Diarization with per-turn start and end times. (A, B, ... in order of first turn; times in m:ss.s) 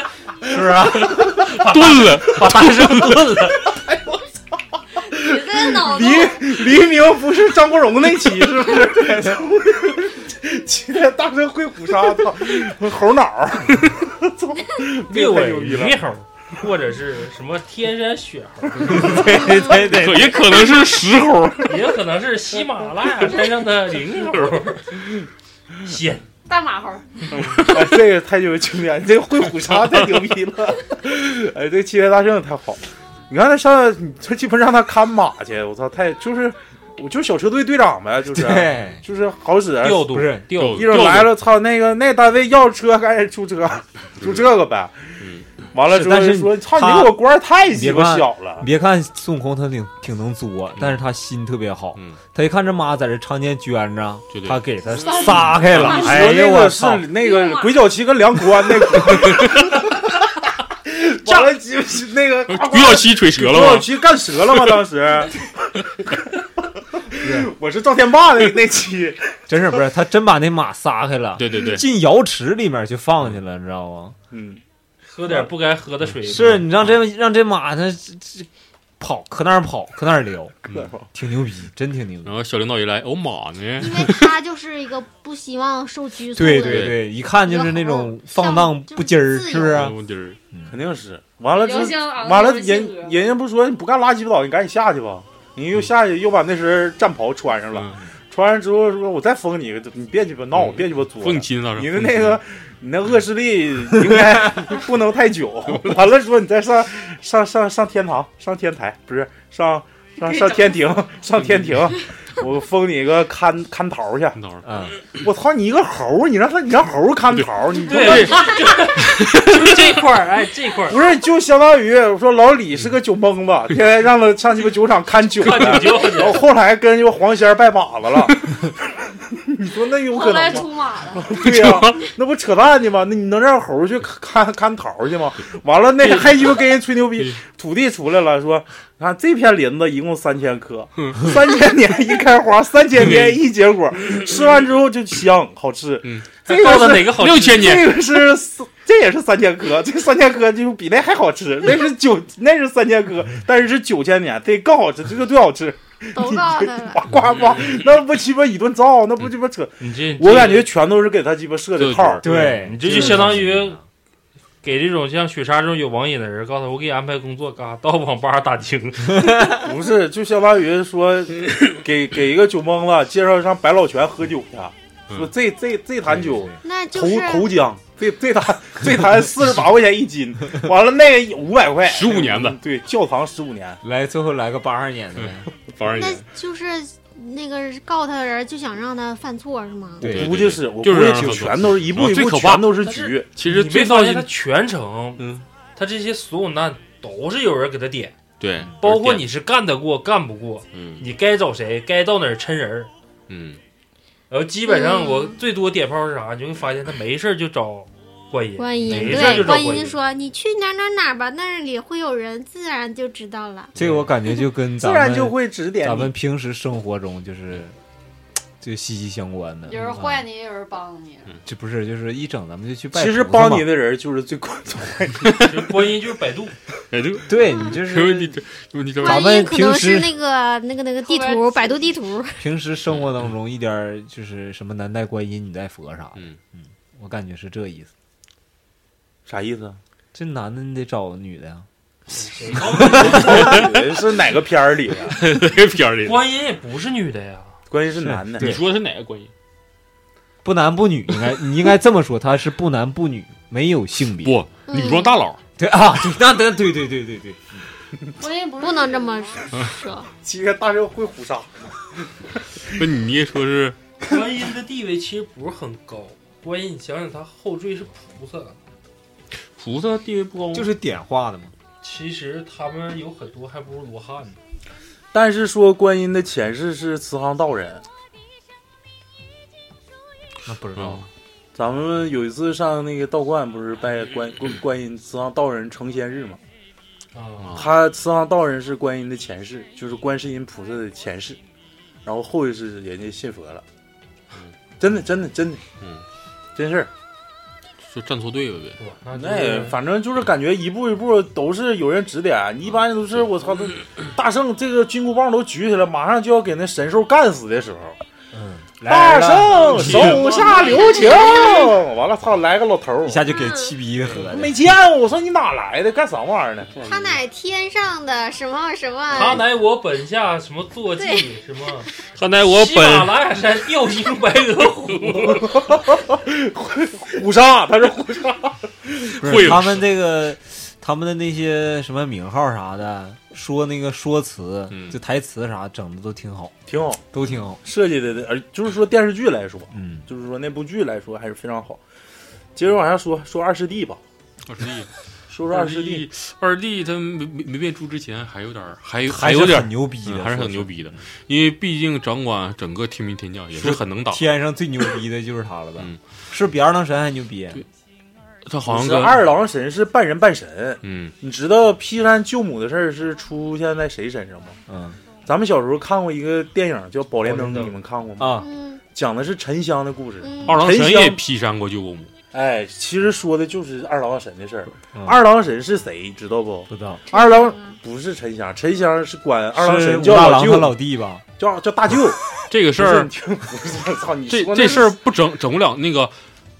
0:00.4-0:01.3 A
0:00.9-0:03.2 B
0:01.4-0:03.6 C
0:03.7-0:04.2 D
0:05.1-0:06.8 E
0:05.1-0:16.0 D
0:15.1-0:19.3 C
0:18.8-0:20.5 A
0:18.8-0:21.8 B
0:21.6-0:25.0 C
0:25.8-0:26.3 C
0:26.4-0:27.2 E
0:27.3-0:28.0 B
0:27.5-0:45.1 D
0:29.6-0:30.1 B
0:38.3-0:39.0 A
0:39.8-0:40.9 C
0:40.1-0:40.4 A
0:40.6-0:41.4 B
0:44.2-0:44.5 B
0:45.7-0:48.6 D
0:45.9-0:57.1 A
0:54.3-0:54.6 B
0:54.9-0:56.2 E
0:55.2-0:56.1 B
0:55.8-1:00.1 D
0:57.2-0:57.9 E
0:59.0-0:59.7 B
1:00.8-1:05.5 D
1:02.5-1:03.9 B
1:04.5-1:04.8 B
1:07.1-1:09.4 D
1:07.2-1:07.5 A
1:09.5-1:14.2 A
1:11.4-1:11.8 B
1:14.3-1:14.6 D
1:15.1-1:16.7 C
1:16.2-1:18.5 A
1:19.0-1:20.5 A
1:20.7-1:21.0 D
1:21.1-1:22.3 A
1:22.2-1:24.3 B
1:23.8-1:29.9 F
1:26.3-1:29.9 A
1:26.5-1:27.0 B
1:29.6-1:30.4 B
1:30.6-1:54.4 D
1:31.5-1:33.3 E
1:37.7-1:38.0 B
1:40.5-1:42.4 B
1:51.4-1:51.7 B
1:54.4-1:54.6 B
1:54.6-1:55.0 A
1:55.2-1:58.5 D
1:57.3-1:58.4 B
1:57.8-2:01.0 C
1:58.9-1:59.6 B
2:00.9-2:08.7 D
2:05.4-2:06.4 C
2:09.3-2:42.2 D
2:10.1-2:11.4 E
2:11.3-2:12.1 B
2:16.0-2:16.6 B
2:21.0-2:21.3 B
2:22.9-2:23.4 B
2:26.0-2:28.0 B
2:26.4-2:27.8 C
2:36.1-2:37.0 F
2:37.5-2:37.8 B
2:39.8-2:40.7 C
2:41.8-2:43.4 B
2:42.2-2:43.8 A
2:42.6-2:43.8 C
2:44.6-2:49.6 C
2:49.5-3:03.8 D
2:56.0-2:56.6 A
2:56.6-2:57.5 F
3:01.9-3:02.6 B
3:03.8-3:05.5 A
3:05.2-3:06.2 B
3:05.9-3:10.1 F
3:10.0-3:11.7 A
3:10.0-3:14.3 B
3:10.1-3:13.3 D
3:12.8-3:15.2 C
3:15.2-3:15.5 B
3:15.8-3:18.1 C
3:18.4-3:19.2 B
3:18.8-3:22.9 C
3:20.7-3:21.0 B
3:23.3-3:23.6 B
3:24.3-3:30.0 C
3:24.7-3:25.4 F
3:28.6-3:33.7 F
3:29.1-3:29.5 B
3:33.8-3:37.8 A
3:33.8-3:34.0 B
3:34.8-3:36.1 D
3:38.6-3:40.2 A
3:39.6-3:41.4 E
3:41.4-3:43.7 A
3:42.9-3:45.6 D
3:45.5-3:46.5 C
3:46.9-3:49.3 B
3:47.3-3:48.4 A
3:49.0-3:52.4 F
3:49.0-3:50.2 A
3:49.1-3:49.5 E
3:51.0-3:51.9 E
3:52.4-3:57.9 A
3:59.2-3:59.8 D
4:00.1-4:01.6 A
4:02.2-4:03.7 C
4:02.6-4:03.4 A
4:02.9-4:05.2 D
4:03.3-4:03.7 B
4:05.1-4:06.2 B
4:06.0-4:07.5 C
4:07.7-4:08.6 D
4:08.0-4:08.6 A
4:08.4-4:09.3 B
4:10.4-4:14.4 A
4:14.2-4:15.4 B
4:14.7-4:15.2 F
4:15.6-4:17.7 A
4:18.2-4:19.6 E
4:18.6-4:20.1 F
4:20.2-4:21.7 D
4:22.7-4:23.8 B
4:24.0-4:28.6 C
4:29.6-4:30.7 B
4:30.5-4:31.5 A
4:31.8-4:34.4 C
4:35.1-4:37.8 D
4:40.5-4:41.1 A
4:40.8-4:41.1 B
4:41.5-4:46.4 D
4:47.1-4:47.6 C
4:47.4-4:47.7 B
4:47.5-4:51.4 D
4:52.0-4:53.6 D
4:54.8-4:55.6 D
4:56.6-4:56.9 D
4:57.8-4:58.8 B
4:58.8-4:59.8 C
4:59.1-5:08.0 D
5:08.3-5:10.3 A
5:08.8-5:13.2 D
5:09.6-5:11.0 B
5:10.4-5:10.7 C
5:10.5-5:11.8 F
5:13.0-5:14.6 A
5:13.3-5:13.7 F
5:14.1-5:16.7 D
5:16.7-5:17.2 B
5:16.8-5:19.4 F
5:19.1-5:21.9 C
5:21.0-5:21.2 F
5:22.1-5:23.1 B
5:22.4-5:25.5 C
5:25.1-5:25.3 B
5:25.4-5:29.2 D
5:29.1-5:29.9 B
5:29.2-5:36.5 A
5:34.7-5:35.0 B
5:36.7-5:37.0 D
5:37.1-5:37.6 A
5:37.6-5:41.8 D
5:39.7-5:40.1 A
5:42.5-5:44.0 D
5:44.5-5:44.9 B
5:45.3-5:46.1 D
5:45.5-5:54.3 B
5:49.1-5:51.0 A
5:53.5-5:57.6 A
5:58.5-5:59.3 B
5:58.7-6:04.6 D
6:00.8-6:01.1 B
6:04.7-6:05.0 A
6:05.2-6:11.2 D
6:07.2-6:07.7 C
6:08.2-6:08.5 A
6:08.4-6:08.8 F
6:10.2-6:10.6 F
6:10.5-6:12.1 B
6:12.3-6:20.8 D
6:14.9-6:15.2 A
6:16.7-6:17.1 A
6:17.1-6:17.8 F
6:19.5-6:21.2 A
6:21.4-6:22.2 D
6:22.5-6:23.1 B
6:22.8-6:25.0 D
6:24.3-6:26.1 B